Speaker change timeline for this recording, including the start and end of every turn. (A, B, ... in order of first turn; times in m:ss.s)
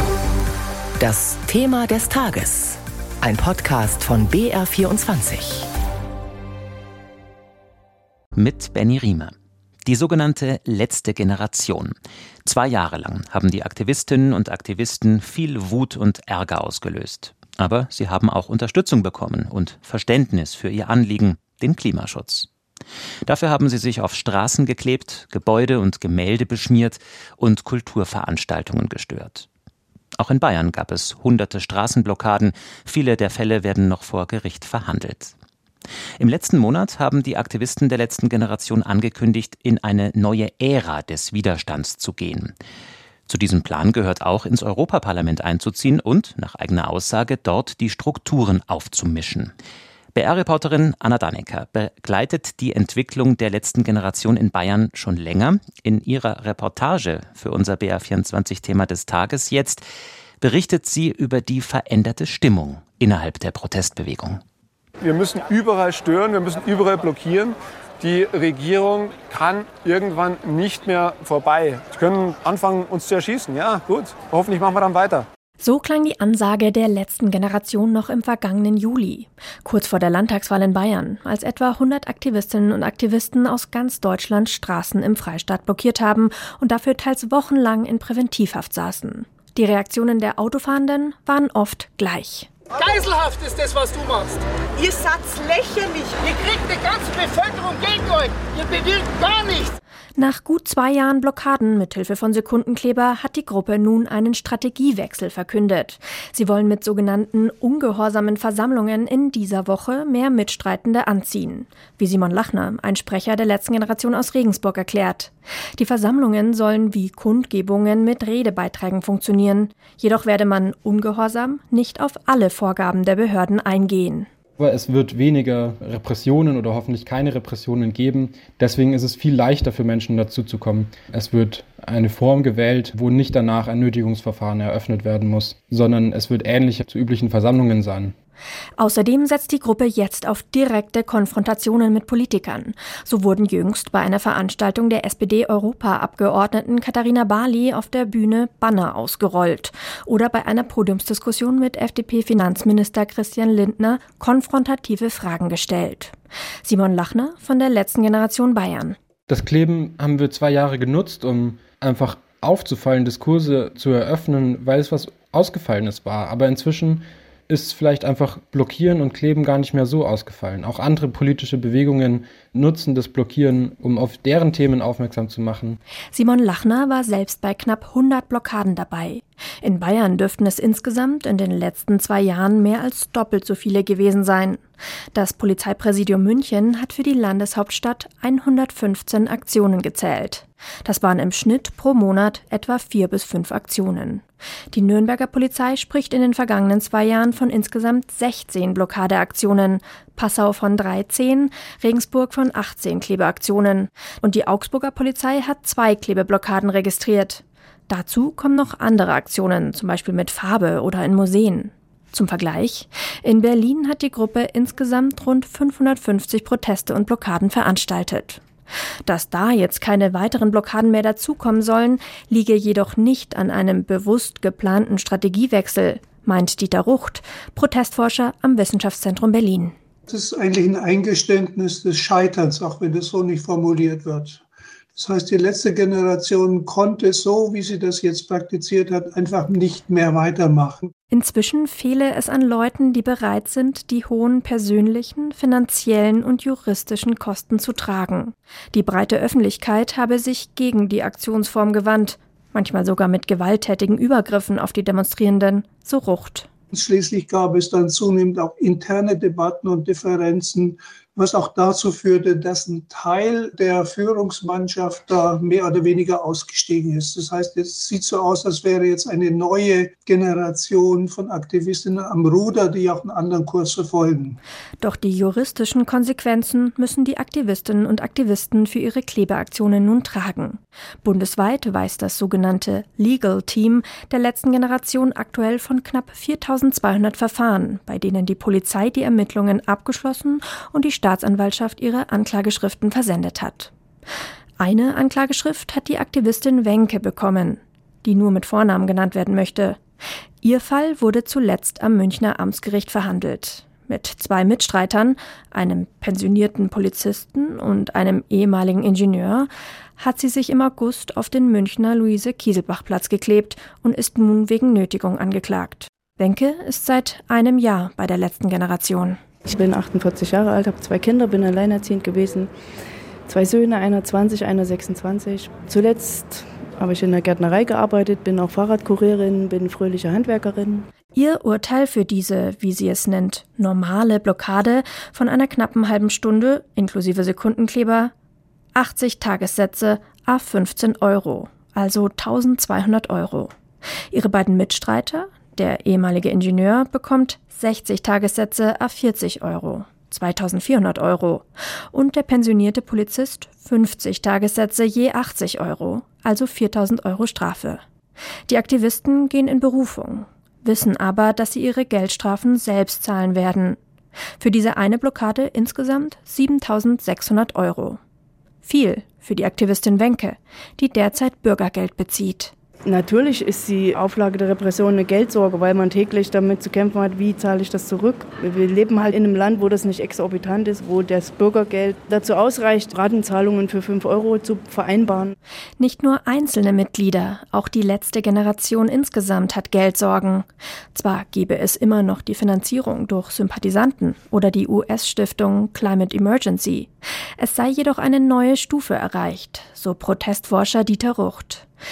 0:01.0-0:05.7 A
0:08.4-0:09.3 B
0:09.8-0:11.9 B
0:12.4-0:22.5 B
0:23.2-0:29.5 B
0:30.2-0:35.3 B
0:36.2-0:42.5 B
0:43.3-0:49.5 B
0:50.1-0:59.8 B
1:00.4-1:04.4 B
1:05.0-1:15.2 C
1:15.6-1:32.5 D
1:32.7-1:39.7 E
1:40.2-2:04.3 D
2:04.6-2:18.1 F
2:18.8-2:39.0 D
2:39.3-2:55.8 F
2:56.1-3:04.6 D
3:05.1-3:38.4 D
3:39.0-3:49.7 D
3:50.1-3:54.4 G
3:54.9-4:00.9 G
4:01.1-4:16.5 D
4:16.7-4:34.4 G
4:34.8-4:53.7 D
4:54.6-4:59.8 D
5:00.4-5:19.2 D
5:19.4-5:22.5 H
5:23.3-5:30.9 H
5:31.1-5:38.1 D
5:38.7-5:43.5 D
5:44.1-5:57.8 D
5:58.5-6:03.8 D
6:04.4-6:08.0 D
6:08.6-6:12.5 D
6:12.9-6:25.3 H
6:25.8-6:41.7 D